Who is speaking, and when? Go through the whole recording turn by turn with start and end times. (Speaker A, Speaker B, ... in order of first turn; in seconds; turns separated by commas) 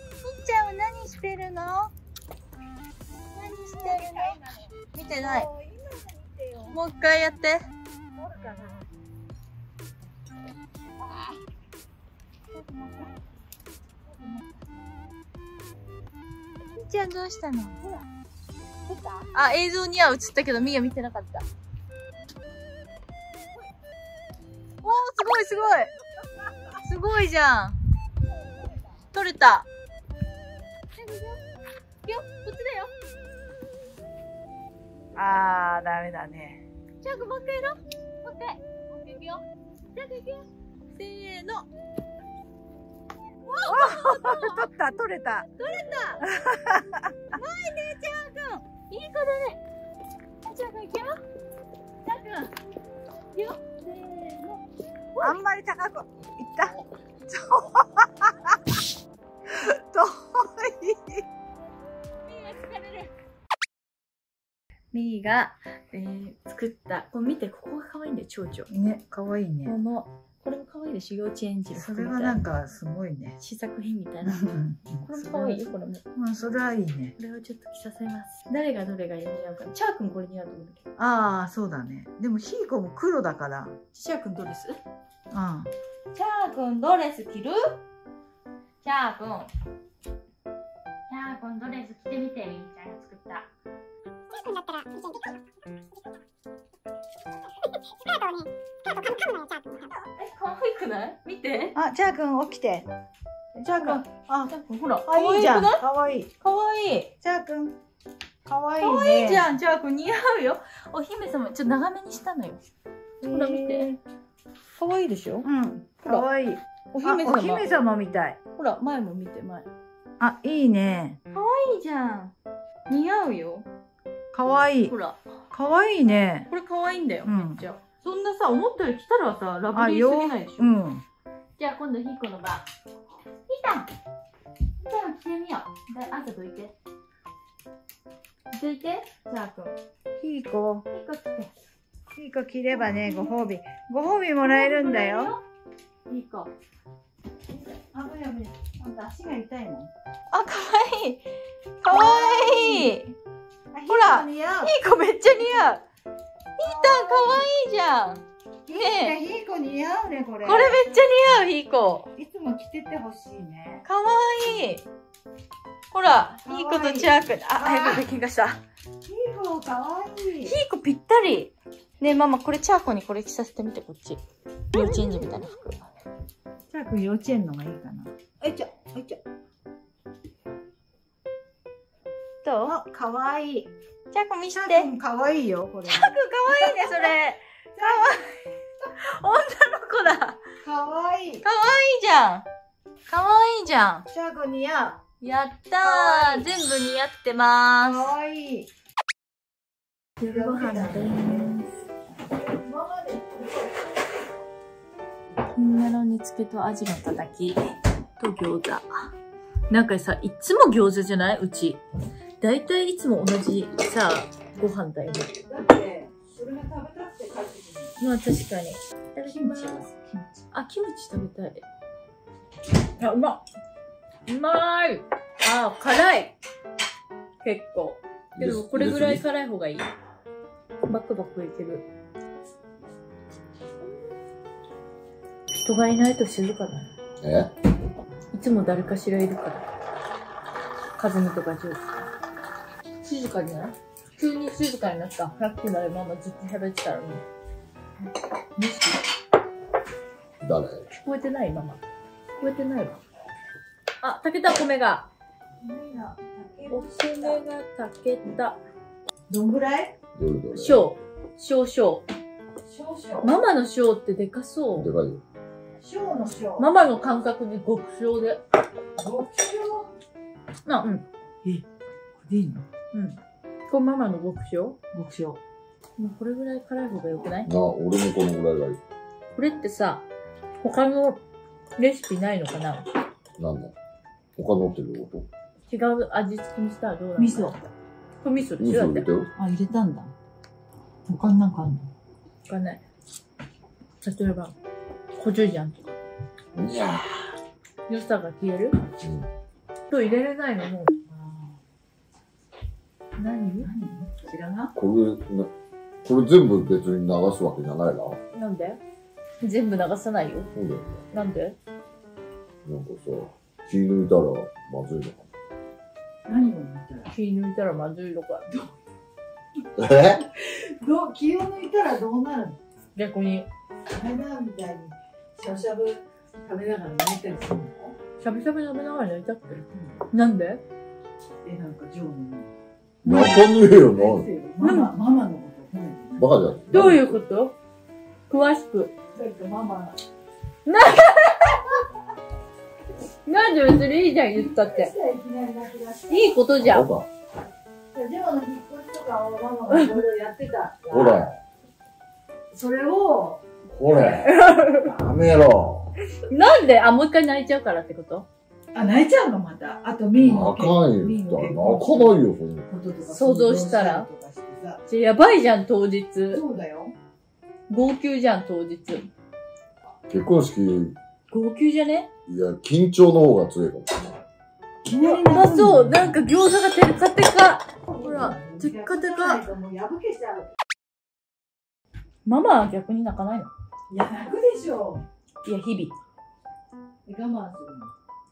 Speaker A: 0.2-1.9, Speaker A: 3.3-5.5, Speaker B: 3.8-4.6, Speaker B: 5.2-6.8, Speaker A: 6.7-7.7, Speaker B: 8.2-8.7, Speaker B: 12.5-13.1, Speaker B: 14.1-14.6, Speaker A: 16.7-17.8, Speaker A: 19.3-21.5, Speaker A: 24.8-25.9, Speaker A: 26.8-27.8, Speaker A: 29.1-29.7, Speaker A: 31.0-31.4, Speaker A: 32.0-32.9, Speaker B: 35.1-36.6, Speaker A: 37.0-41.7, Speaker A: 43.4-44.7, Speaker B: 43.7-45.5, Speaker A: 45.4-46.3, Speaker B: 46.2-47.1, Speaker A: 47.3-49.6, Speaker A: 50.4-51.2, Speaker A: 52.0-52.5, Speaker A: 53.3-54.6, Speaker A: 55.1-55.4, Speaker B: 55.2-58.5, Speaker B: 59.5-61.2, Speaker A: 62.2-63.1, Speaker A: 64.9-68.7, Speaker B: 68.7-69.8, Speaker A: 69.7-72.4, Speaker B: 71.7-73.4, Speaker A: 73.4-74.4, Speaker B: 74.3-77.2, Speaker A: 75.0-76.0, Speaker A: 77.2-80.8, Speaker B: 81.0-83.8, Speaker A: 83.9-84.8, Speaker B: 85.3-85.7, Speaker A: 86.1-87.8, Speaker A: 88.8-89.5, Speaker A: 91.1-93.5, Speaker A: 100.2-101.8, Speaker B: 101.8-102.9, Speaker A: 103.5-105.8, Speaker B: 103.6-104.5, Speaker B: 105.0-106.3, Speaker A: 106.4-107.1, Speaker B: 107.2-107.8, Speaker B: 108.5-109.5, Speaker A: 108.8-112.6, Speaker B: 113.2-114.0, Speaker A: 113.3-113.9, Speaker A: 114.7-115.5, Speaker B: 115.4-118.4, Speaker A: 116.9-119.7, Speaker B: 120.2-121.2, Speaker A: 121.3-122.3, Speaker A: 122.9-123.7, Speaker B: 124.3-125.0, Speaker A: 124.9-125.2, Speaker B: 125.5-126.5, Speaker A: 126.5-130.7, Speaker B: 127.2-127.6, Speaker B: 129.7-131.0, Speaker A: 131.6-132.7, Speaker A: 133.5-133.9, Speaker A: 134.8-136.8, Speaker A: 138.5-139.8, Speaker B: 140.2-140.9, Speaker A: 140.9-141.6, Speaker B: 142.2-145.4, Speaker A: 142.9-143.3, Speaker A: 144.4-145.4, Speaker A: 146.1-146.5, Speaker B: 147.6-149.9, Speaker A: 150.3-151.3, Speaker A: 151.8-153.2, Speaker B: 151.9-152.9, Speaker B: 153.7-154.7, Speaker A: 153.9-155.8, Speaker B: 155.3-155.7, Speaker A: 156.6-159.2, Speaker B: 156.6-157.4, Speaker B: 158.7-160.8, Speaker A: 160.4-162.1, Speaker B: 162.2-163.8, Speaker A: 163.8-164.8, Speaker A: 165.9-168.6, Speaker B: 166.4-168.1, Speaker B: 169.1-170.6, Speaker A: 170.4-175.8, Speaker B: 176.7-179.2, Speaker A: 182.4-182.8, Speaker B: 182.6-183.7, Speaker A: 184.1-184.9, Speaker B: 184.5-187.1, Speaker A: 185.9-188.0, Speaker B: 187.7-188.3, Speaker A: 189.0-190.4, Speaker B: 190.6-191.4, Speaker A: 191.4-192.5, Speaker A: 193.1-194.1, Speaker B: 194.1-195.0, Speaker A: 195.2-198.1, Speaker B: 195.8-196.5, Speaker B: 197.8-198.7, Speaker A: 200.2-201.7, Speaker B: 200.2-201.6, Speaker B: 202.6-203.9, Speaker A: 205.6-209.1, Speaker A: 209.7-211.8, Speaker A: 212.4-215.3, Speaker B: 215.3-218.0, Speaker A: 218.0-219.9, Speaker B: 219.2-220.4, Speaker A: 220.5-221.6, Speaker A: 223.0-223.4, Speaker A: 224.3-226.4, Speaker A: 227.4-229.9, Speaker C: 228.4-229.2, Speaker A: 230.8-231.9, Speaker A: 235.5-236.9, Speaker C: 237.2-237.5, Speaker A: 238.3-239.7, Speaker A: 241.0-242.1, Speaker A: 243.0-247.2, Speaker A: 248.6-248.9, Speaker C: 250.4-250.8, Speaker A: 250.9-251.8, Speaker A: 252.4-253.0, Speaker A: 254.0-255.1, Speaker B: 255.6-257.4, Speaker A: 256.7-258.6, Speaker B: 259.3-259.9, Speaker C: 260.2-260.9, Speaker A: 260.5-262.1, Speaker B: 262.6-263.4, Speaker A: 263.2-264.9, Speaker C: 264.8-265.2, Speaker B: 265.8-266.7, Speaker A: 266.6-268.4, Speaker B: 269.0-269.9, Speaker A: 270.7-271.1, Speaker B: 272.2-272.6, Speaker A: 272.9-274.8, Speaker B: 274.9-275.4, Speaker A: 276.0-277.5, Speaker C: 277.4-278.8, Speaker A: 279.4-280.1, Speaker A: 280.6-281.2, Speaker A: 281.8-282.9, Speaker C: 283.4-283.7, Speaker C: 284.4-285.3, Speaker A: 285.7-287.6, Speaker B: 287.2-287.6, Speaker A: 288.2-289.1, Speaker C: 288.6-289.3, Speaker B: 289.4-290.1, Speaker B: 291.1-291.9, Speaker A: 292.5-292.8, Speaker A: 294.0-294.6, Speaker A: 295.2-295.9, Speaker C: 296.6-297.3, Speaker A: 297.9-298.7, Speaker C: 299.0-299.3, Speaker A: 299.9-300.9, Speaker B: 301.1-301.6, Speaker A: 303.2-303.7, Speaker B: 303.6-304.7, Speaker C: 304.8-305.5, Speaker C: 306.0-308.2, Speaker A: 308.3-308.8, Speaker A: 309.4-310.5, Speaker C: 310.6-311.0, Speaker A: 311.1-311.6, Speaker C: 312.6-315.3, Speaker B: 316.3-317.1, Speaker A: 317.1-318.5, Speaker C: 319.8-320.2, Speaker B: 320.2-322.6, Speaker A: 322.9-323.5, Speaker B: 323.9-328.0, Speaker A: 328.2-330.6, Speaker B: 329.7-330.0, Speaker B: 331.4-332.5, Speaker C: 333.0-334.3, Speaker A: 333.1-333.3, Speaker B: 333.2-336.3, Speaker A: 334.6-334.9, Speaker C: 336.2-337.2, Speaker A: 336.7-337.6, Speaker A: 338.3-338.9, Speaker B: 339.1-340.0, Speaker A: 340.6-341.7, Speaker A: 343.2-344.9, Speaker B: 344.4-346.4, Speaker A: 346.1-346.9, Speaker C: 346.6-347.1, Speaker B: 347.9-351.3, Speaker C: 350.9-351.3, Speaker B: 352.5-353.4, Speaker C: 353.7-355.9, Speaker A: 354.1-354.9, Speaker A: 356.3-358.3, Speaker B: 358.7-364.8, Speaker C: 360.2-362.7, Speaker A: 363.1-364.1, Speaker A: 364.9-366.4, Speaker B: 366.3-366.9, Speaker A: 367.7-369.1, Speaker C: 370.1-371.0, Speaker A: 371.3-372.1, Speaker C: 372.3-374.2, Speaker B: 374.9-376.3, Speaker A: 374.9-379.4, Speaker B: 377.9-380.5, Speaker A: 382.2-383.5, Speaker B: 383.9-385.0, Speaker A: 385.4-385.9, Speaker B: 387.1-387.9